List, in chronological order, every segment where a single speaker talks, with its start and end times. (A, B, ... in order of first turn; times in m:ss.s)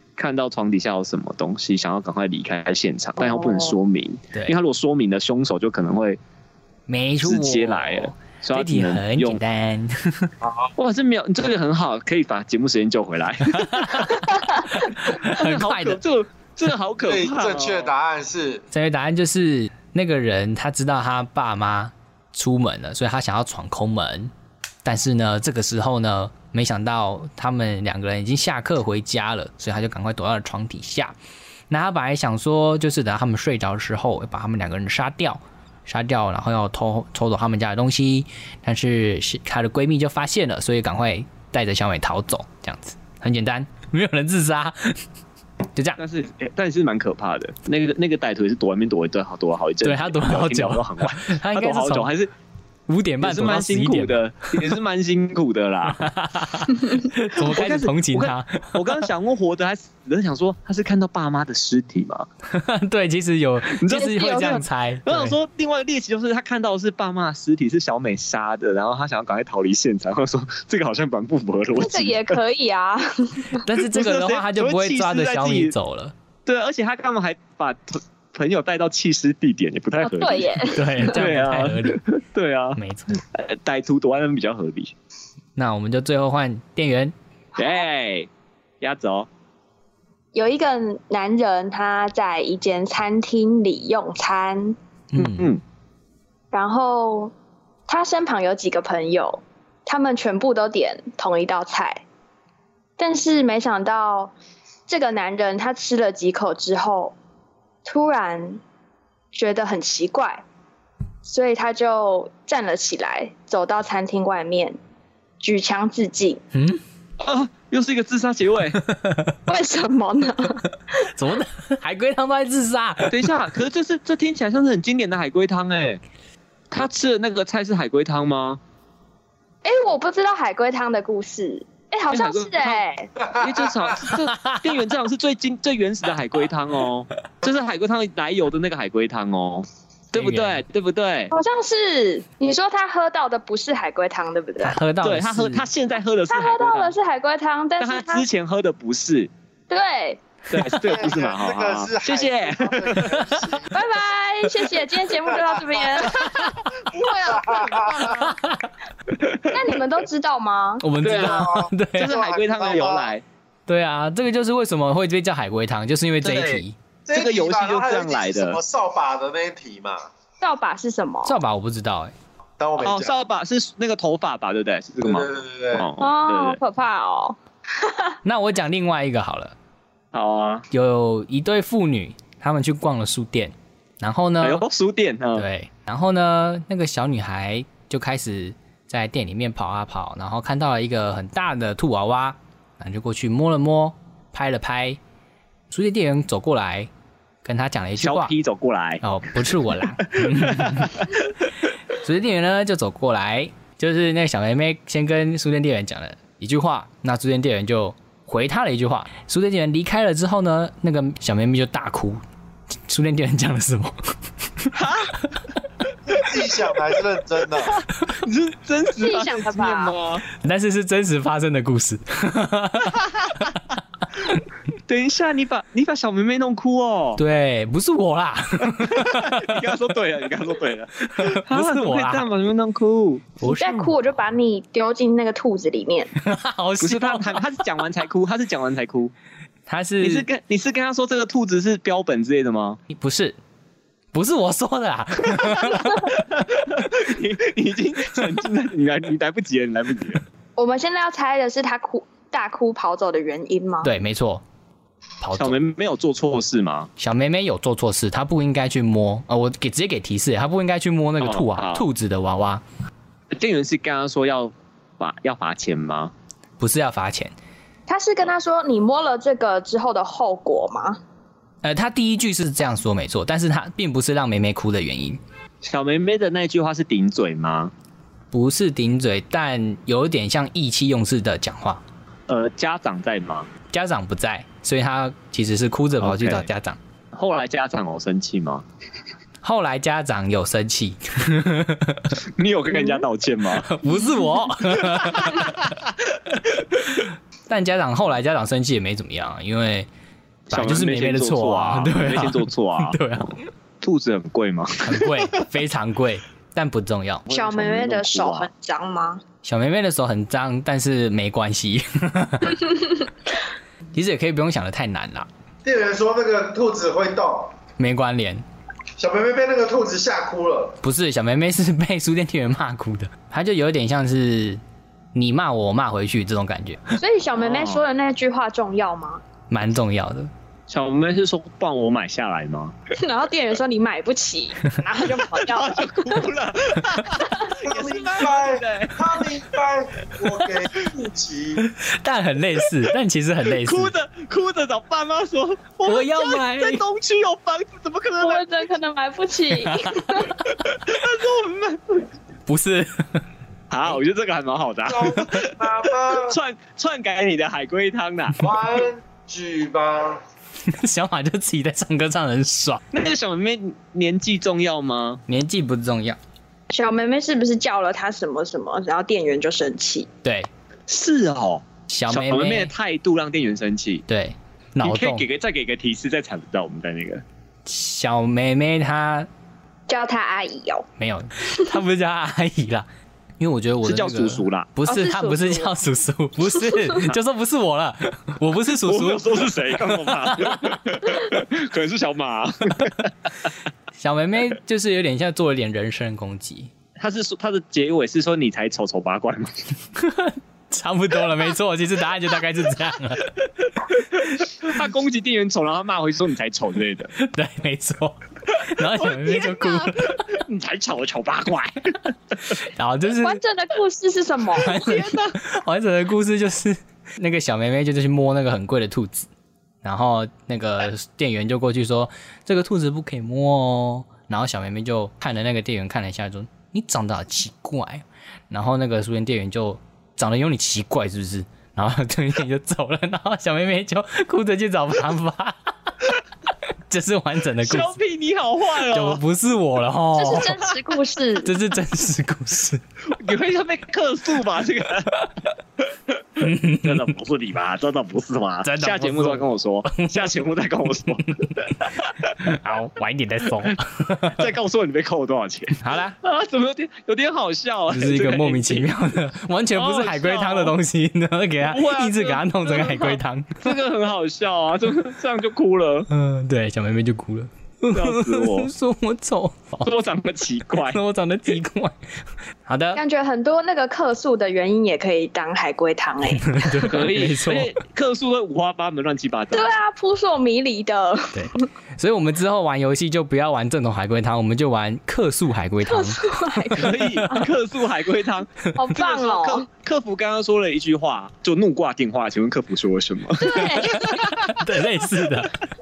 0:00.2-0:06.2 A
0:03.2-0:03.7 B
0:06.9-0:10.3 C
0:07.2-0:09.4 A
0:10.4-0:10.7 D
0:10.8-0:17.9 A
0:13.6-0:16.0 C
0:17.1-0:18.6 D
0:18.7-0:24.3 C
0:24.8-0:31.1 C
0:31.7-0:45.0 C
0:45.7-0:46.0 C
0:46.0-0:52.3 A
0:49.8-0:52.1 C
0:52.9-0:54.2 C
0:53.2-0:56.0 A
0:56.0-0:59.0 C
0:57.3-1:02.3 A
1:02.5-1:05.4 C
1:03.8-1:12.4 A
1:03.9-1:04.6 B
1:11.7-1:13.7 B
1:13.6-1:16.1 C
1:13.9-1:15.8 A
1:16.5-1:22.8 A
1:20.0-1:21.2 B
1:20.7-1:22.0 C
1:22.8-1:23.2 C
1:23.3-1:24.9 A
1:25.6-1:27.1 C
1:27.6-1:27.8 B
1:27.6-1:28.3 A
1:28.8-1:29.3 A
1:30.3-1:34.8 B
1:35.1-1:35.5 C
1:35.2-1:35.6 A
1:36.5-1:37.3 B
1:37.9-1:42.0 B
1:43.0-1:44.3 B
1:44.9-1:47.2 B
1:47.8-1:48.6 B
1:49.3-1:50.4 B
1:51.2-1:54.8 B
1:55.4-1:56.4 B
1:56.5-1:56.8 C
1:57.2-1:58.8 A
1:58.9-1:59.4 C
1:59.5-2:00.6 B
2:01.1-2:03.2 C
2:03.1-2:06.0 A
2:06.7-2:08.6 A
2:09.6-2:13.1 B
2:12.1-2:12.8 A
2:13.2-2:14.0 D
2:13.4-2:21.3 A
2:14.1-2:14.6 C
2:20.2-2:20.6 C
2:21.3-2:24.8 B
2:24.6-2:25.6 C
2:25.0-2:27.0 A
2:26.3-2:28.2 B
2:27.8-2:29.3 A
2:29.7-2:30.2 B
2:30.5-2:33.3 A
2:30.8-2:33.9 D
2:33.7-2:38.3 B
2:36.9-2:38.4 D
2:38.2-2:38.7 C
2:39.5-2:40.8 B
2:40.8-2:42.1 C
2:41.0-2:43.2 A
2:41.1-2:43.1 D
2:43.7-2:46.8 C
2:46.2-2:48.6 A
2:47.0-2:50.1 D
2:50.4-2:51.4 B
2:51.2-2:52.1 C
2:52.6-2:53.1 D
2:52.8-2:56.6 A
2:55.0-2:55.9 D
2:56.0-2:58.1 B
2:58.2-2:59.6 C
3:00.1-3:00.7 A
3:00.7-3:04.6 C
3:04.4-3:05.5 A
3:05.4-3:15.0 C
3:15.7-3:16.9 C
3:17.4-3:18.3 C
3:18.0-3:19.0 A
3:19.0-3:21.1 C
3:20.0-3:21.3 A
3:21.9-3:32.2 C
3:32.9-3:34.7 C
3:34.8-3:35.2 A
3:36.1-3:37.7 D
3:37.6-3:40.2 A
3:39.0-3:39.9 B
3:40.4-3:43.0 C
3:42.9-3:43.5 A
3:44.9-3:47.2 A
3:47.2-3:49.7 C
3:48.6-3:53.5 A
3:51.1-3:52.2 C
3:53.4-3:53.9 C
3:53.4-3:56.1 B
3:56.2-3:57.5 C
3:56.8-3:59.1 A
3:59.7-4:00.3 C
4:00.0-4:02.8 A
4:02.9-4:03.4 C
4:04.1-4:06.1 C
4:06.1-4:10.2 A
4:10.6-4:13.9 B
4:13.8-4:14.4 C
4:15.2-4:15.6 C
4:15.4-4:16.9 A
4:17.0-4:22.6 C
4:21.2-4:21.8 A
4:23.4-4:26.1 A
4:26.6-4:27.4 C
4:27.9-4:31.0 B
4:31.6-4:35.2 C
4:35.6-4:37.7 A
4:38.3-4:41.8 C
4:42.3-4:43.5 A
4:43.7-4:46.8 C
4:46.0-4:46.5 A
4:47.1-4:48.6 A
4:49.4-4:52.1 C
4:52.2-4:53.7 A
4:53.6-4:55.7 C
4:54.8-4:56.8 A
4:57.5-4:59.9 C
5:00.5-5:03.0 A
5:00.5-5:03.4 C
5:03.8-5:05.3 A
5:04.8-5:07.2 C
5:07.3-5:08.5 A
5:07.3-5:09.2 B
5:09.4-5:13.0 C
5:13.9-5:15.3 C
5:15.6-5:17.5 D
5:17.8-5:18.4 C
5:19.0-5:20.8 D
5:20.8-5:24.6 C
5:25.1-5:26.9 C
5:27.0-5:29.2 B
5:27.4-5:27.8 A
5:29.5-5:30.3 C
5:30.7-5:32.8 A
5:33.0-5:36.2 B
5:35.2-5:39.4 A
5:37.2-5:37.5 B
5:37.7-5:41.6 D
5:41.6-5:43.9 C
5:43.4-5:48.7 A
5:45.8-5:46.8 C
5:48.2-5:50.4 B
5:50.5-5:52.1 A
5:52.5-5:53.2 C
5:53.7-5:58.4 A
5:54.9-5:56.4 D
5:58.4-6:00.2 D
6:00.7-6:02.8 C
6:02.9-6:05.2 A
6:05.3-6:06.2 C
6:06.7-6:10.1 B
6:10.2-6:10.5 C
6:10.9-6:14.0 A
6:11.9-6:12.7 C
6:14.1-6:15.2 C
6:14.8-6:17.2 A
6:17.7-6:19.3 C
6:19.9-6:20.9 B
6:21.0-6:22.9 C
6:23.4-6:30.6 C
6:23.8-6:24.7 A
6:24.9-6:25.7 B
6:28.8-6:33.1 A
6:34.0-6:36.7 C
6:37.0-6:39.5 A
6:40.0-6:43.3 C
6:42.8-6:47.1 A
6:47.2-6:50.2 C
6:48.5-6:52.1 A
6:52.5-6:53.4 C
6:53.2-6:55.0 B
6:54.6-6:59.3 C
6:54.6-6:55.4 A
6:59.8-7:15.7 C
7:16.9-7:17.9 C
7:17.6-7:19.2 A
7:18.9-7:20.5 C
7:20.2-7:21.5 B
7:20.3-7:20.7 A
7:21.4-7:22.8 C
7:23.2-7:32.6 A
7:26.4-7:26.9 C
7:28.6-7:30.3 C
7:32.4-7:34.4 C
7:34.4-7:38.9 A
7:35.8-7:36.2 C
7:37.9-7:43.7 C
7:39.7-7:40.8 A
7:41.6-7:46.1 A
7:46.1-7:49.9 C
7:47.9-7:48.7 A
7:49.8-7:51.0 A
7:50.8-7:52.1 C
7:52.7-7:53.0 C
7:53.0-7:57.0 B
7:56.3-7:57.7 C
7:56.9-7:59.8 A
7:59.5-8:01.7 B
8:01.3-8:06.3 C
8:05.8-8:07.5 B
8:06.7-8:14.8 A
8:08.8-8:09.6 B
8:13.4-8:14.3 B
8:14.1-8:15.6 C